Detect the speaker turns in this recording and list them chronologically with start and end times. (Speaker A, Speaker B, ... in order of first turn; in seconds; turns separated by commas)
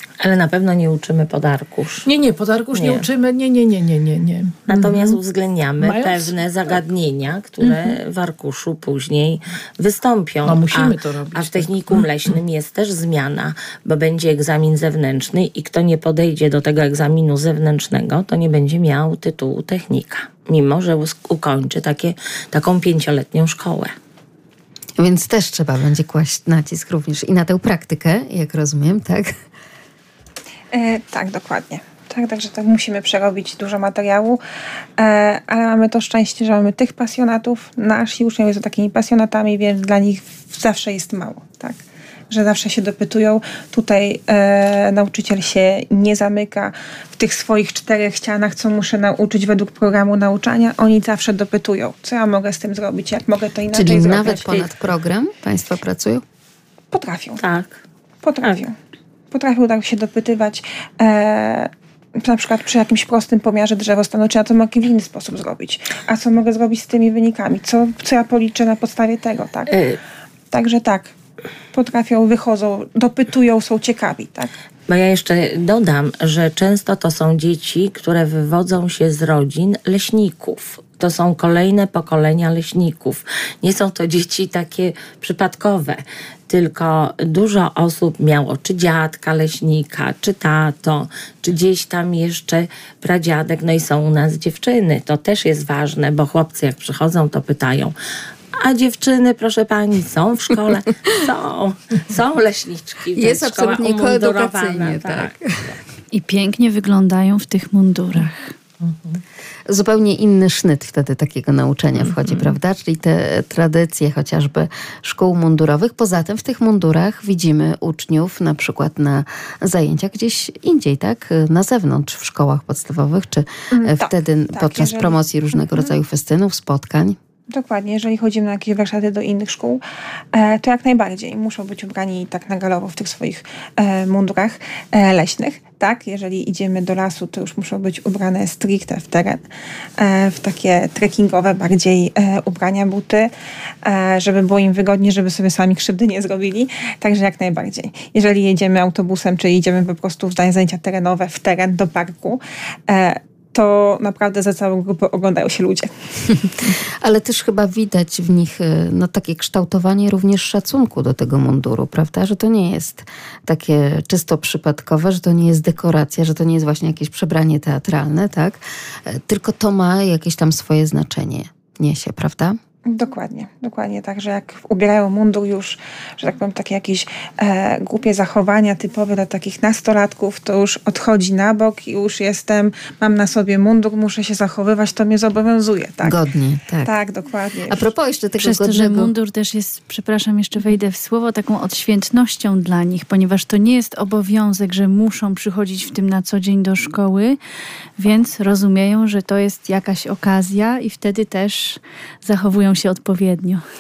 Speaker A: 0.2-2.1, Speaker B: 2.0-5.2, Speaker A: 2.7-3.1, Speaker A: 4.7-23.9, Speaker B: 5.8-6.8, Speaker B: 7.6-8.0, Speaker B: 10.4-12.1, Speaker C: 25.0-29.3, Speaker D: 30.7-34.4, Speaker D: 35.0-54.7, Speaker C: 53.7-56.2, Speaker D: 56.9-57.4, Speaker A: 57.4-57.8, Speaker D: 58.2-58.8, Speaker D: 59.3-69.7, Speaker A: 69.7-70.0, Speaker D: 70.5-71.1, Speaker D: 71.7-74.5, Speaker A: 74.9-97.9, Speaker A: 98.6-105.8, Speaker C: 103.2-105.8, Speaker E: 106.1-108.5, Speaker B: 108.8-109.2, Speaker C: 109.7-127.2, Speaker B: 112.1-112.5, Speaker D: 123.7-125.9, Speaker D: 127.5-129.8, Speaker D: 130.3-139.5, Speaker D: 140.0-143.3, Speaker D: 143.8-155.9, Speaker C: 157.0-172.6, Speaker D: 172.9-186.2, Speaker C: 186.0-186.9, Speaker D: 186.8-187.9, Speaker C: 187.7-189.1, Speaker E: 188.4-197.4, Speaker E: 198.0-203.6